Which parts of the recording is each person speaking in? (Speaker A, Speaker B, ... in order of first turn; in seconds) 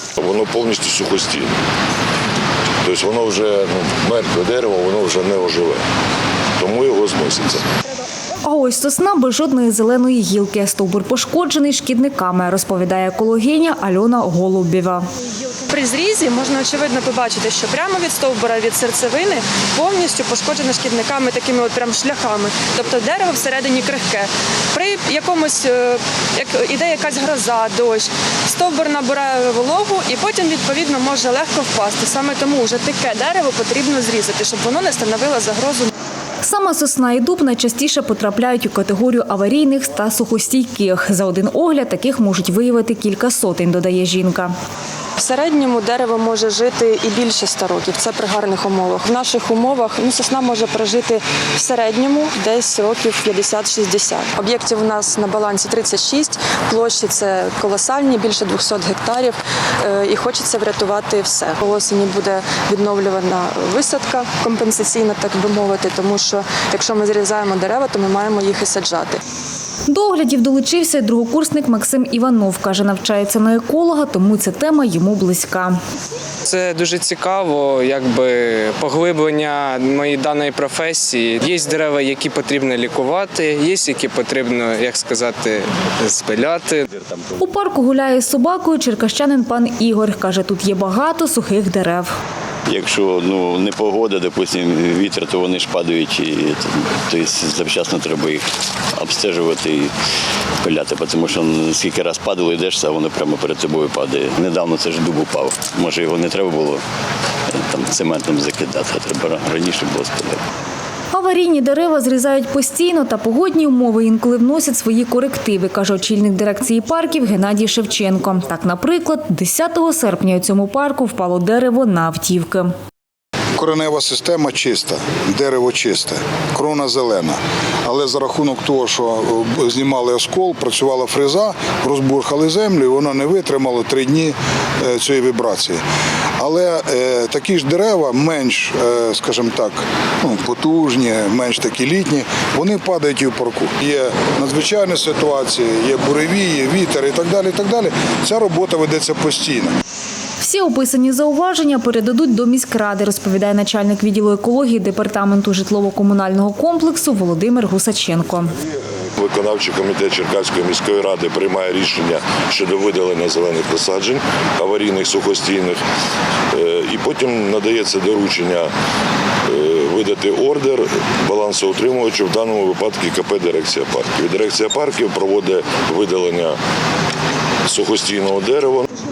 Speaker A: 0.2-1.5, 2.8-5.8, 6.6-7.6, 159.2-165.8, 166.5-168.7, 169.5-176.6, 177.7-178.9
Speaker B: 8.4-15.1, 36.4-44.5, 69.9-75.8, 87.4-92.1, 111.1-122.7, 150.4-158.5
Speaker C: 15.7-35.9, 45.2-69.2
Speaker D: 76.5-86.9
Speaker E: 92.7-98.4, 99.0-99.9, 100.6-106.8, 107.5-110.4
Speaker F: 123.6-135.8, 136.4-149.7